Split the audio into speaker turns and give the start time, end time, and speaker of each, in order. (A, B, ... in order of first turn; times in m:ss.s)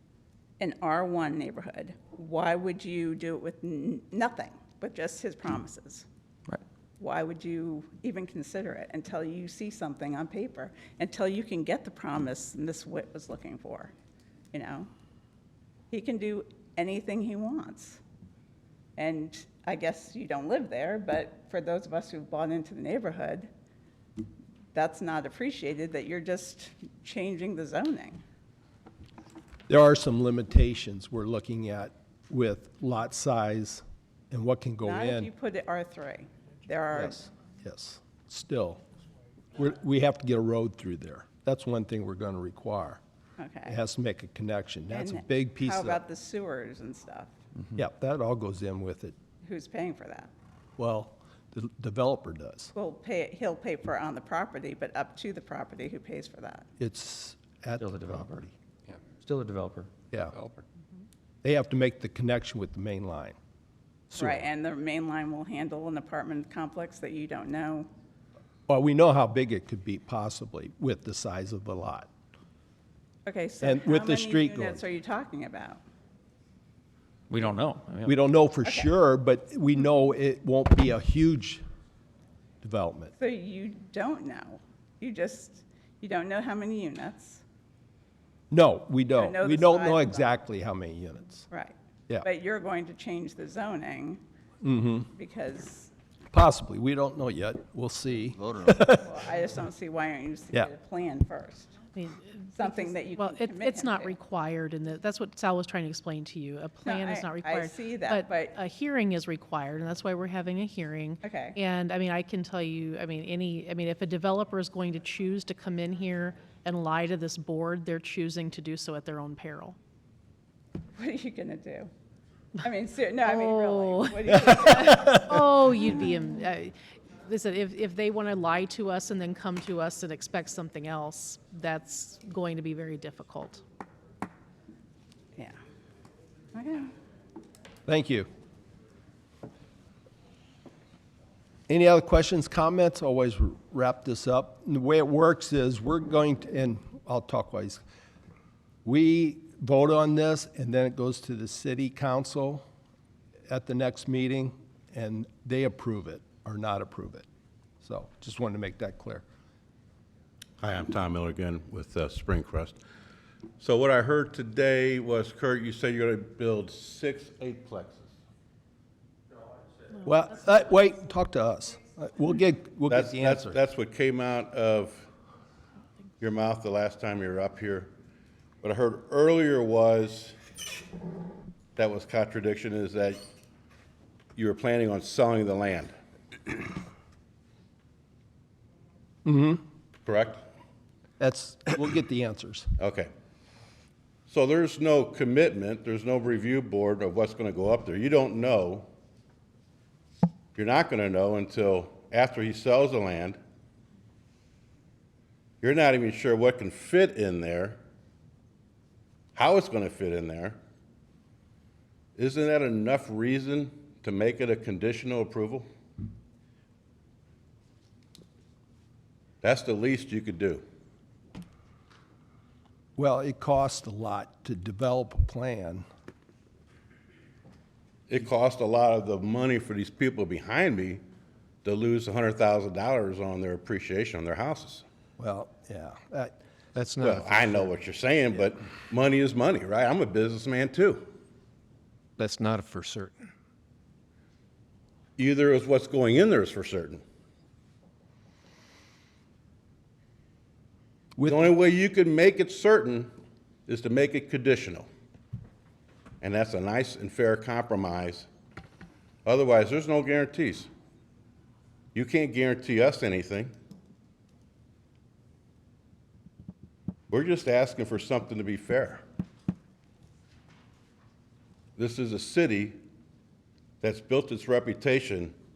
0:00.6-0:06.0 A
0:07.0-0:13.9 A
0:14.5-0:14.9 A
0:15.9-0:18.0 A
0:19.0-0:23.5 A
0:24.7-0:28.2 A
0:29.7-0:35.3 B
0:34.8-0:37.2 A
0:37.0-0:38.8 B
0:39.6-0:43.0 B
0:43.4-0:43.8 A
0:43.7-0:46.0 B
0:44.9-0:47.3 A
0:47.8-0:49.2 B
0:49.4-0:50.3 A
0:50.8-0:52.7 B
0:52.8-0:56.6 A
0:56.8-0:58.5 B
0:57.8-1:00.6 C
1:01.4-1:03.4 B
1:04.1-1:04.4 B
1:04.2-1:07.9 A
1:08.7-1:12.1 B
1:13.2-1:15.8 A
1:13.6-1:14.8 B
1:17.3-1:18.2 C
1:18.0-1:21.6 B
1:18.6-1:18.9 A
1:22.6-1:23.1 B
1:23.2-1:27.4 A
1:28.5-1:31.5 B
1:29.2-1:30.3 A
1:31.5-1:34.2 A
1:34.6-1:35.1 B
1:35.1-1:35.9 A
1:36.3-1:39.1 B
1:38.9-1:41.8 A
1:41.9-1:59.8 D
1:42.6-1:44.2 A
1:46.8-1:48.6 A
1:51.2-1:51.6 A
2:01.0-2:01.9 A
2:02.6-2:06.2 A
2:03.2-2:13.6 D
2:16.5-2:16.9 A
2:17.8-2:18.3 B
2:21.7-2:27.8 B
2:28.8-2:32.6 B
2:33.5-2:37.2 B
2:37.8-2:39.2 B
2:40.6-2:42.8 E
2:43.6-2:48.1 E
2:50.0-2:53.6 B
2:52.9-2:55.1 E
2:56.2-2:57.9 E
2:58.6-3:00.3 E
3:01.8-3:03.2 E
3:04.4-3:05.9 E
3:09.2-3:09.6 B
3:10.1-3:10.4 E
3:11.2-3:12.7 B
3:12.8-3:13.1 E
3:14.3-3:18.9 E
3:20.5-3:23.4 E
3:25.6-3:27.8 E
3:29.3-3:30.6 E
3:32.2-3:35.7 E
3:39.4-3:40.6 E
3:43.0-3:45.8 B
3:48.1-3:51.0 E
3:51.6-3:54.8 E
3:55.2-3:56.4 B
3:56.7-3:57.6 F
3:57.0-4:01.1 E
4:02.2-4:03.2 F
4:05.2-4:07.0 E
4:11.2-4:11.5 B
4:11.3-4:13.1 E
4:13.7-4:14.9 E
4:16.2-4:18.3 E
4:19.2-4:20.7 E
4:21.9-4:23.5 E
4:27.1-4:29.0 E
4:31.8-4:32.8 E
4:33.8-4:35.3 E